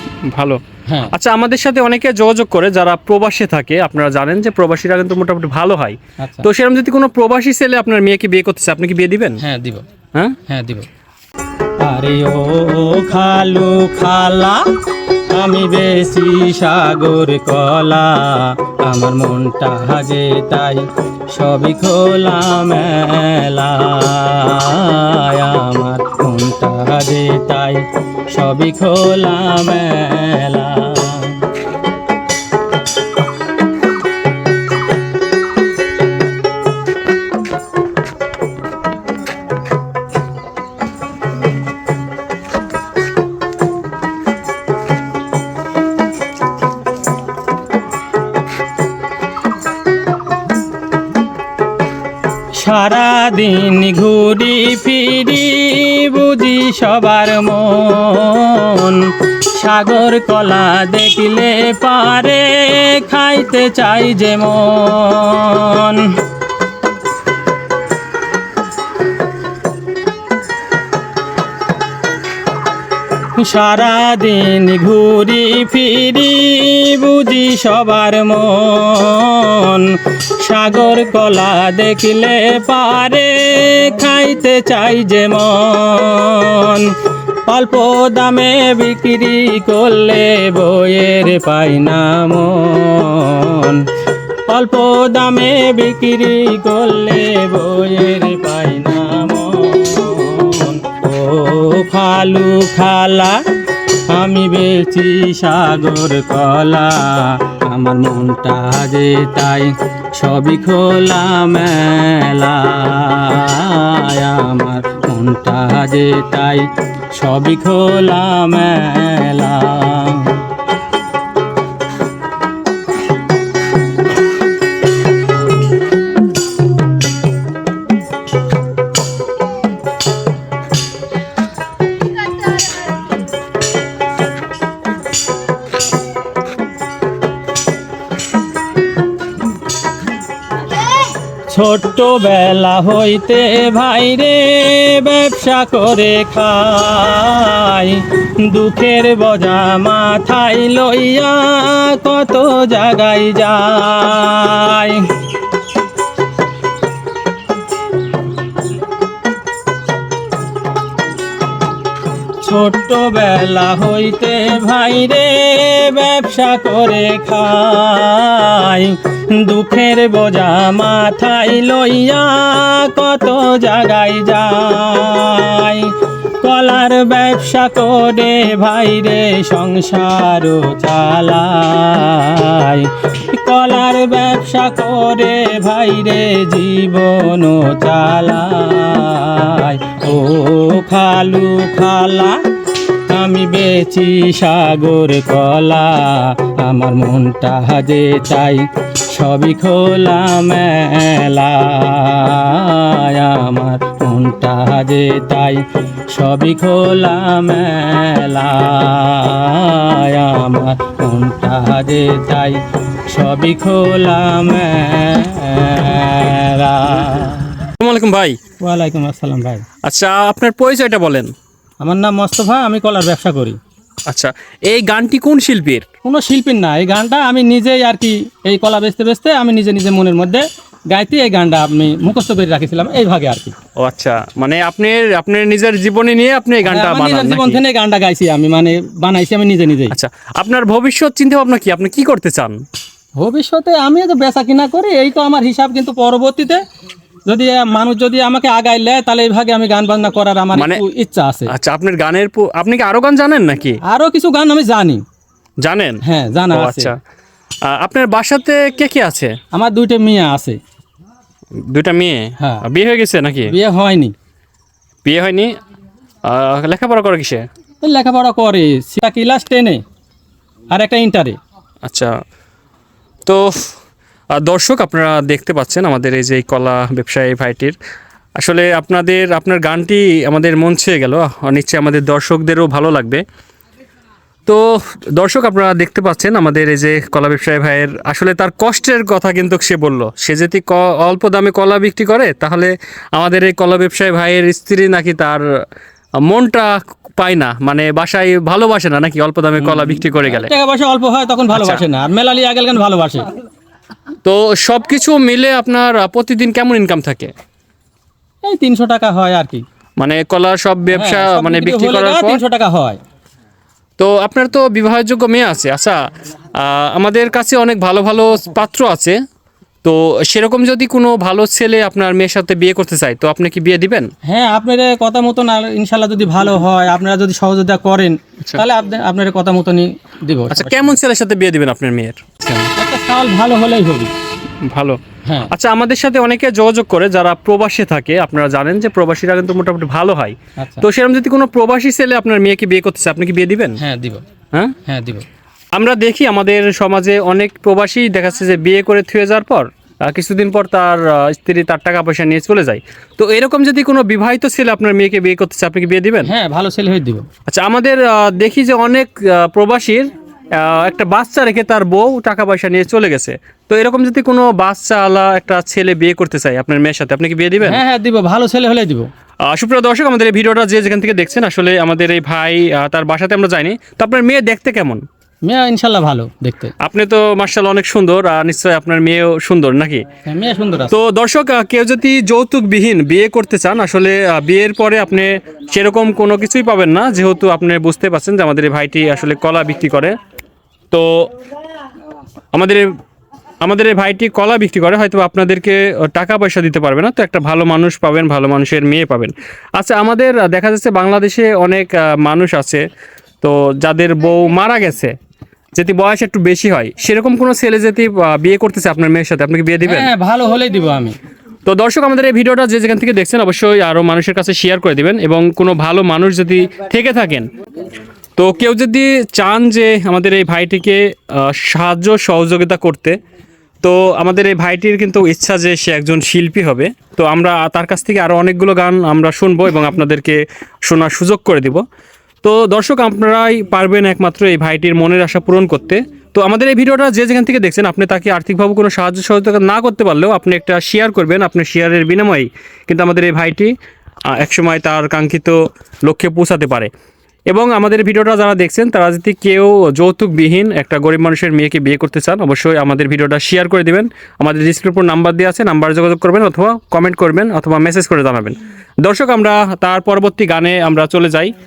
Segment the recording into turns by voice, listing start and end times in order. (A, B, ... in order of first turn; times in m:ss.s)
0:00.3-0:09.4 A
0:06.2-0:06.5 B
0:09.4-0:09.8 B
0:10.5-0:10.9 B
0:11.8-0:14.6 B
0:15.3-0:31.4 B
0:52.5-1:06.1 B
1:13.4-1:26.9 B
1:27.5-1:33.8 B
1:34.5-1:43.4 B
1:44.1-2:00.4 B
2:21.5-2:35.1 B
2:42.4-3:12.4 B
3:13.1-3:37.7 B
3:37.8-3:38.4 A
3:38.6-3:39.6 B
3:39.8-3:41.3 A
3:41.8-3:43.6 B
3:44.1-3:45.8 A
3:46.0-3:53.5 B
3:53.8-3:57.6 A
3:56.6-3:59.9 B
3:59.9-4:02.6 A
4:03.2-4:06.6 B
4:07.3-4:11.5 B
4:10.5-4:10.8 A
4:11.5-4:13.8 A
4:13.8-4:15.0 B
4:15.6-4:16.0 A
4:16.0-4:16.9 B
4:16.5-4:17.0 A
4:17.7-4:19.3 A
4:19.5-4:20.6 B
4:21.7-4:23.5 A
4:23.5-4:24.1 B
4:25.0-4:25.5 A
4:26.3-4:27.4 A
4:27.8-4:29.8 B
4:30.7-4:31.4 B
4:31.8-4:32.1 A
4:33.2-4:33.5 A
4:34.3-4:37.8 A
4:38.4-4:43.2 A
4:44.5-4:55.4 A
4:56.3-5:00.5 A
4:59.6-5:03.3 B
5:01.5-5:01.8 A
5:04.2-5:07.3 A
5:08.4-5:09.6 B
5:10.0-5:12.4 A
5:10.9-5:13.0 B
5:14.0-5:16.0 A
5:16.6-5:19.2 A
5:19.8-5:24.1 A
5:24.3-5:30.9 B
5:30.5-5:32.7 A
5:32.8-5:34.1 B
5:34.6-5:35.0 A
5:35.2-5:35.5 B
5:35.5-5:43.8 A
5:40.6-5:40.8 B
5:43.8-5:44.2 B
5:44.8-5:45.2 B
5:45.7-5:56.3 A
5:56.2-5:57.2 B
5:57.5-6:07.8 A
6:07.6-6:09.1 B
6:09.5-6:15.0 A
6:15.4-6:16.7 B
6:16.8-6:20.0 A
6:20.2-6:21.0 B
6:20.9-6:30.1 A
6:30.9-6:31.3 A
6:32.5-6:32.8 A
6:33.6-6:42.8 A
6:43.4-6:45.1 A
6:45.7-6:50.1 A
6:49.8-6:51.1 B
6:51.6-6:57.5 A
6:58.4-7:03.2 A
7:03.8-7:11.8 A
7:12.4-7:23.7 A
7:24.3-7:26.9 A
7:27.5-7:41.5 A